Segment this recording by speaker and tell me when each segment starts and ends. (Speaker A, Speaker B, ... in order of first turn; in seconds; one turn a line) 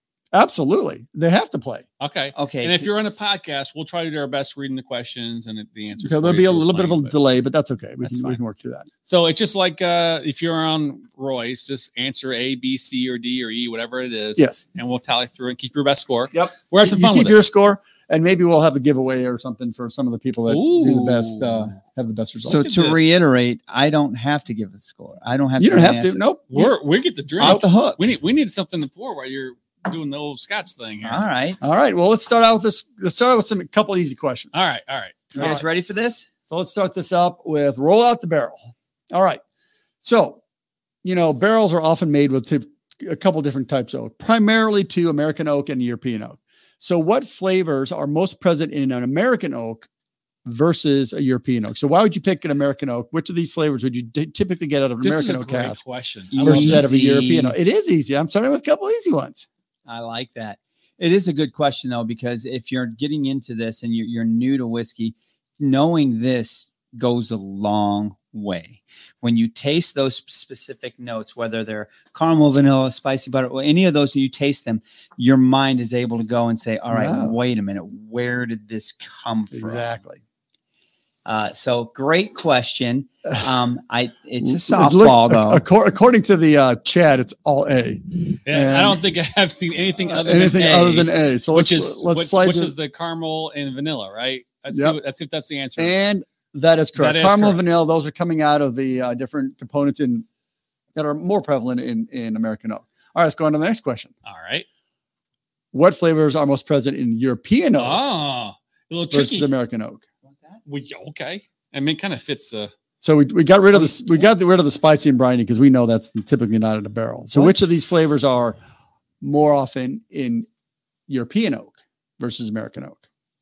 Speaker A: 0.3-1.9
Speaker B: 2.0-7.1
Speaker C: 2.4-3.2
Speaker A: 6.0-8.9
Speaker B: 8.1-8.4
Speaker B: 9.1-17.5
Speaker A: 14.4-14.6
Speaker A: 16.3-22.6
Speaker B: 20.5-21.7
Speaker C: 22.5-26.2
Speaker B: 22.5-23.1
Speaker A: 25.6-26.7
Speaker B: 26.5-31.2
Speaker C: 27.4-28.0
Speaker A: 27.4-27.6
Speaker C: 31.0-31.6
Speaker A: 31.6-34.6
Speaker B: 34.5-35.4
Speaker A: 35.3-35.6
Speaker C: 35.4-36.3
Speaker A: 36.5-39.4
Speaker A: 40.0-40.4
Speaker A: 41.0-49.9
Speaker A: 50.5-55.8
Speaker B: 55.0-56.9
Speaker C: 56.3-57.5
Speaker A: 56.4-59.5
Speaker C: 59.9-80.0
Speaker A: 76.9-77.4
Speaker A: 79.5-80.2
Speaker C: 81.3-85.6
Speaker A: 84.4-89.0
Speaker B: 88.5-95.9
Speaker A: 90.1-92.7
Speaker A: 94.7-95.0
Speaker A: 95.8-100.3
Speaker B: 97.0-97.6
Speaker A: 101.0-104.1
Speaker B: 104.2-104.7
Speaker A: 105.7-108.0
Speaker B: 107.8-109.5
Speaker A: 109.1-110.0
Speaker C: 110.3-110.6
Speaker B: 110.7-112.7
Speaker A: 113.0-118.6
Speaker A: 119.2-120.5
Speaker A: 121.1-123.0